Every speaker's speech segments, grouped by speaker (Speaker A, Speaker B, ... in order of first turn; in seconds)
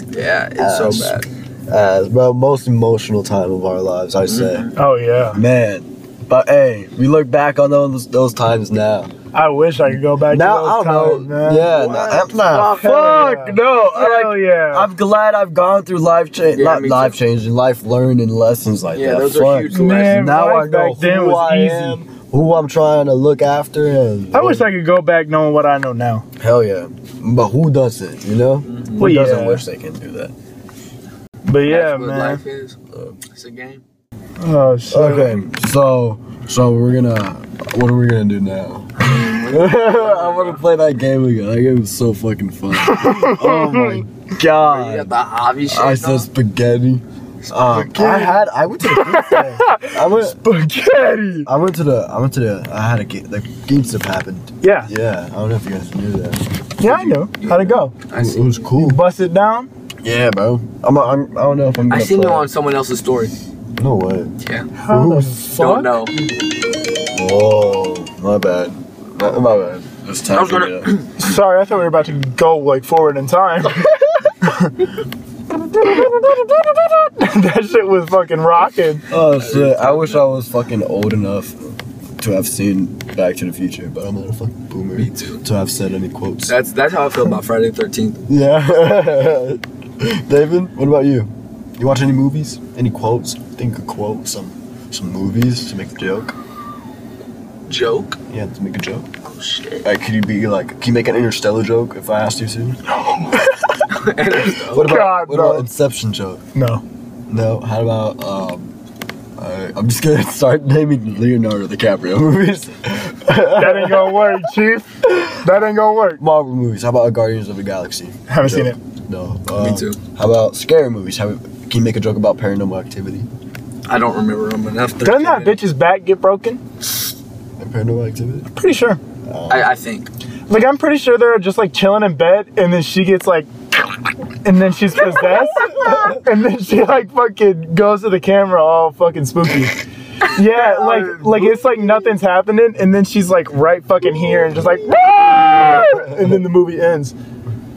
Speaker A: 0.1-1.3, 4.2-4.7, 11.6-13.3, 16.5-17.2, 18.9-20.4, 28.6-29.1, 31.6-33.8, 39.0-40.6, 44.6-46.3, 47.4-47.9, 57.4-58.6, 61.9-63.4, 64.4-64.7, 65.5-66.1, 70.3-71.1, 79.3-80.2, 85.0-85.4, 86.5-88.2, 97.7-98.2, 99.2-99.9, 103.9-105.0, 119.6-120.0, 123.9-125.6, 129.5-130.1, 140.6-141.2
Speaker B: 0.6-4.7, 5.3-9.1, 10.2-24.7, 26.4-30.3, 34.9-45.1, 45.7-50.5, 51.4-59.0, 60.0-62.5, 63.8-64.3, 64.9-65.4, 67.1-71.0, 79.1-86.5, 88.3-96.3, 98.3-99.1, 99.8-102.8, 104.7-106.4, 107.3-108.7, 109.4-114.5, 115.0-115.4, 116.2-123.3, 127.6-128.5, 129.3-129.8, 135.8-136.1, 140.9-141.3, 145.8-146.4
Speaker C: 4.8-5.4, 9.3-11.7, 12.6-14.9, 19.7-22.0, 24.3-26.3, 29.0-29.6, 31.4-32.4, 34.4-35.4, 42.8-44.0, 47.9-51.5, 54.6-54.9, 56.8-58.0, 58.7-59.7, 64.8-66.0, 71.2-73.9, 74.4-74.7, 75.7-79.0, 102.9-103.6, 104.6-105.7, 106.5-106.8, 113.5-116.2, 118.3-118.8, 125.0-126.6, 128.5-129.0, 130.5-147.1